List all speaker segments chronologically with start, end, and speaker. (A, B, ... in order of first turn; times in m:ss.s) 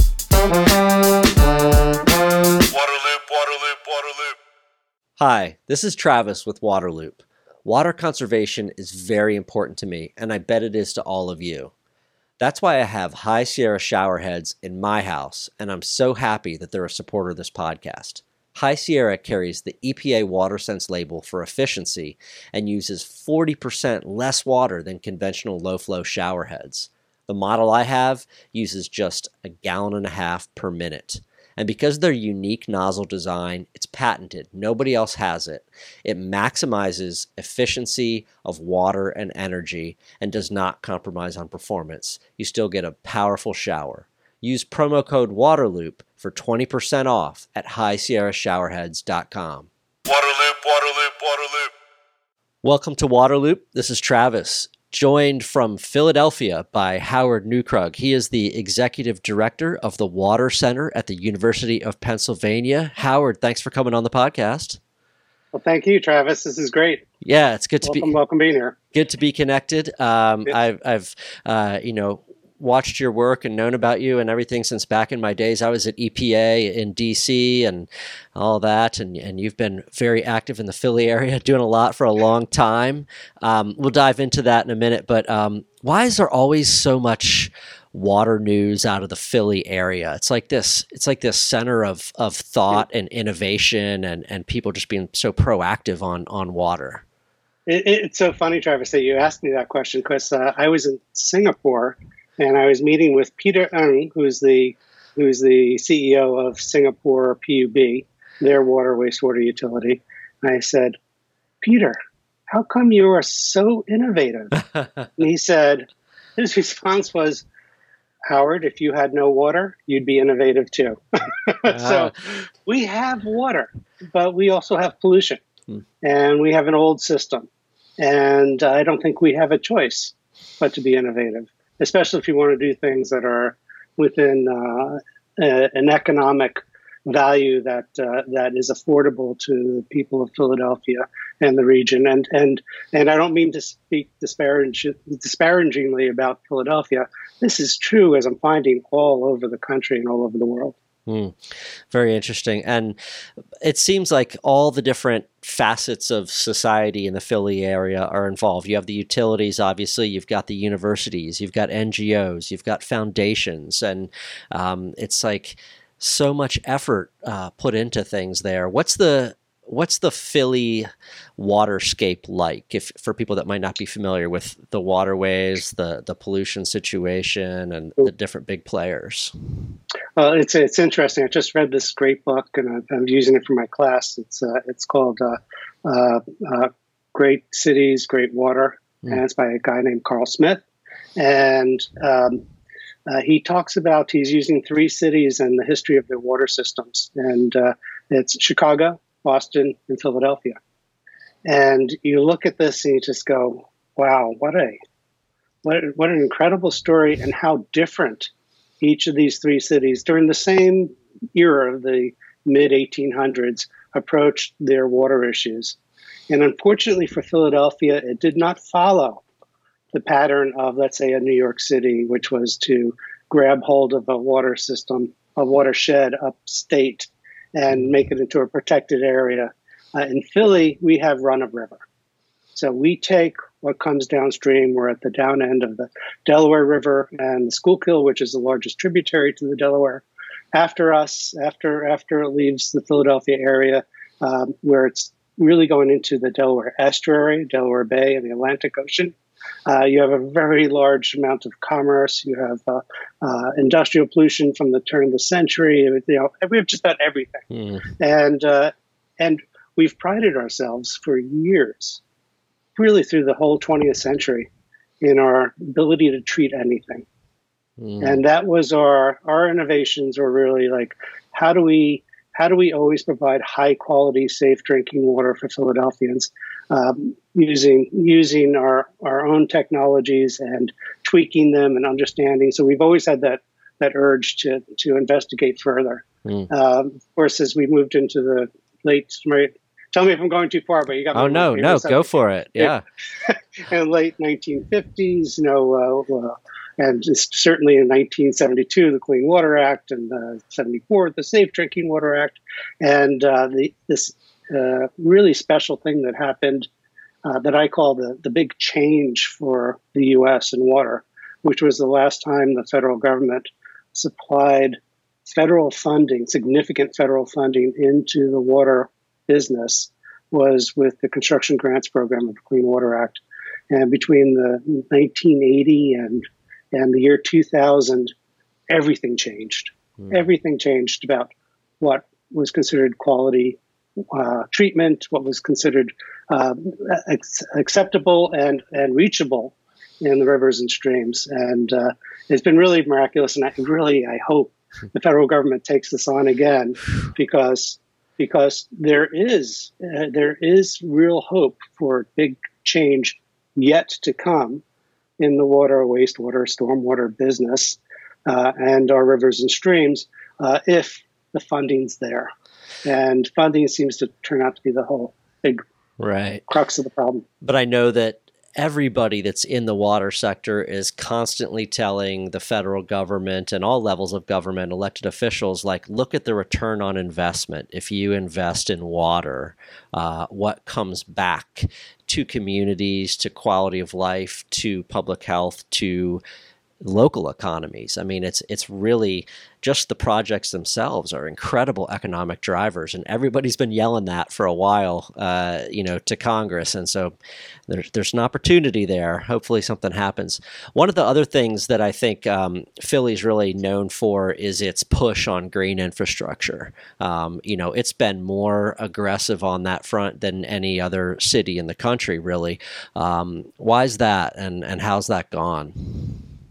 0:02.7-0:04.4 A
0:05.2-0:11.7 B
0:12.4-0:49.7 B
0:50.1-0:51.7 A
0:52.6-1:04.8 B
1:05.5-1:07.0 C
1:07.2-1:08.1 B
1:07.8-1:08.8 C
1:08.9-1:37.0 B
1:37.7-1:51.0 C
1:51.6-1:52.0 C
1:52.5-1:54.6 C
1:55.2-1:57.5 C
1:58.3-2:05.4 C
2:01.7-2:02.1 B
2:06.0-2:07.5 C
2:08.0-2:30.8 C
2:31.1-2:31.4 B
2:31.9-2:33.0 B
2:33.6-2:59.3 B
3:00.2-3:10.6 C
3:11.2-3:12.4 C
3:13.1-3:20.6 C
3:21.5-3:24.8 C
3:25.6-3:28.3 C
3:28.8-3:35.8 C
3:36.3-3:39.2 C
3:39.9-3:51.8 C
3:52.6-4:09.2 C
4:09.7-4:17.5 C
4:17.5-4:17.8 B
4:18.0-4:22.0 C
4:22.8-4:24.5 C
4:25.0-4:27.1 C
4:27.8-4:28.2 B
4:28.0-5:06.7 C
4:51.1-4:52.8 B
5:07.2-5:28.1 C
5:28.7-5:33.6 C
5:34.1-5:54.6 C
5:55.2-6:02.3 C
6:02.8-6:05.6 C
6:06.0-6:06.4 B
6:06.5-6:07.3 C
6:07.4-6:26.2 B
6:26.8-6:37.2 B
6:37.7-6:56.2 B